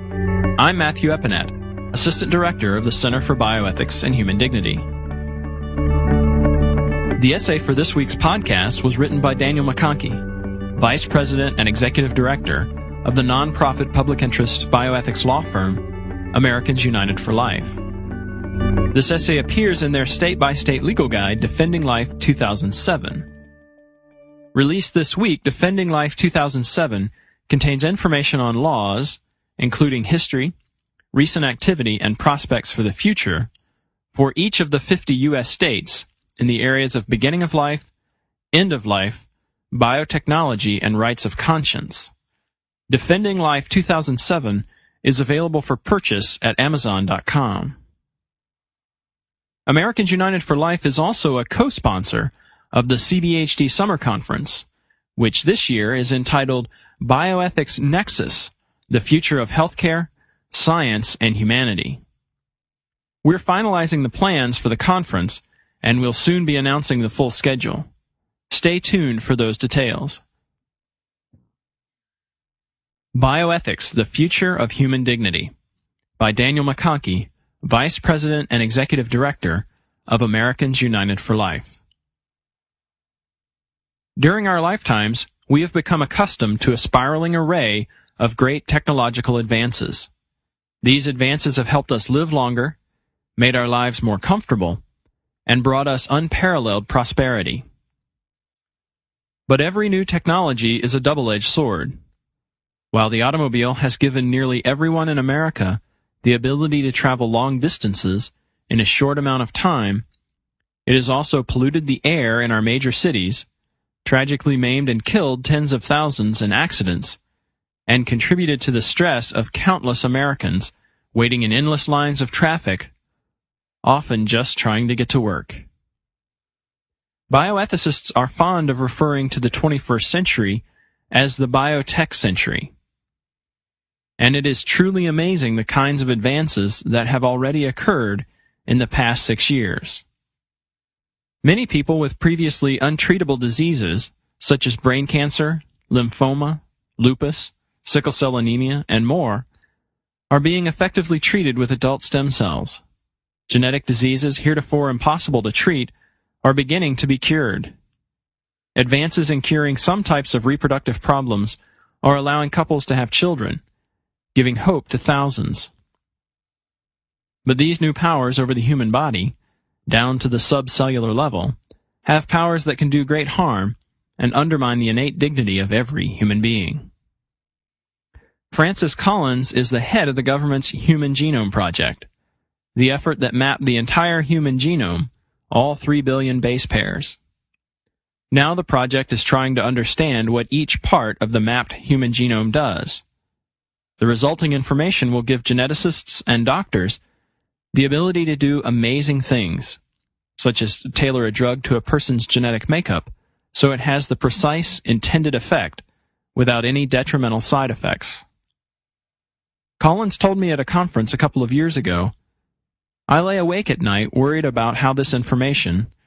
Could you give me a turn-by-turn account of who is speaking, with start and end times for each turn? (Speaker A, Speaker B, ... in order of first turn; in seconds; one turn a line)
Speaker A: 0.6-4.9
Speaker A: 7.2-10.2
Speaker A: 10.8-17.8
Speaker A: 18.9-23.3
Speaker A: 24.5-30.5
Speaker A: 31.1-33.5
Speaker A: 34.1-37.9
Speaker A: 38.5-42.1
Speaker A: 42.9-47.8
Speaker A: 49.7-62.0
Speaker A: 63.2-67.9
Speaker A: 68.5-70.2
Speaker A: 73.2-75.5
Speaker A: 76.2-81.8
Speaker A: 84.2-90.1
Speaker A: 90.8-92.8
Speaker A: 93.4-94.8
Speaker A: 95.5-97.7
Speaker A: 99.5-102.0
Speaker A: 102.9-110.0
Speaker A: 110.9-113.5
Speaker A: 114.0-117.2
Speaker A: 117.9-122.9
Speaker A: 123.8-125.7
Speaker A: 127.3-132.7
Speaker A: 134.2-140.1
Speaker A: 141.4-149.5
Speaker A: 150.3-152.8
Speaker A: 153.5-155.9
Speaker A: 156.4-157.7
Speaker A: 158.8-163.6
Speaker A: 164.3-165.7
Speaker A: 167.4-169.3
Speaker A: 169.9-176.9
Speaker A: 178.5-182.1
Speaker A: 182.8-187.2
Speaker A: 188.3-193.0
Speaker A: 194.0-197.0
Speaker A: 197.7-199.8
Speaker A: 200.4-205.8
Speaker A: 206.3-208.2
Speaker A: 209.8-212.1
Speaker A: 213.1-215.9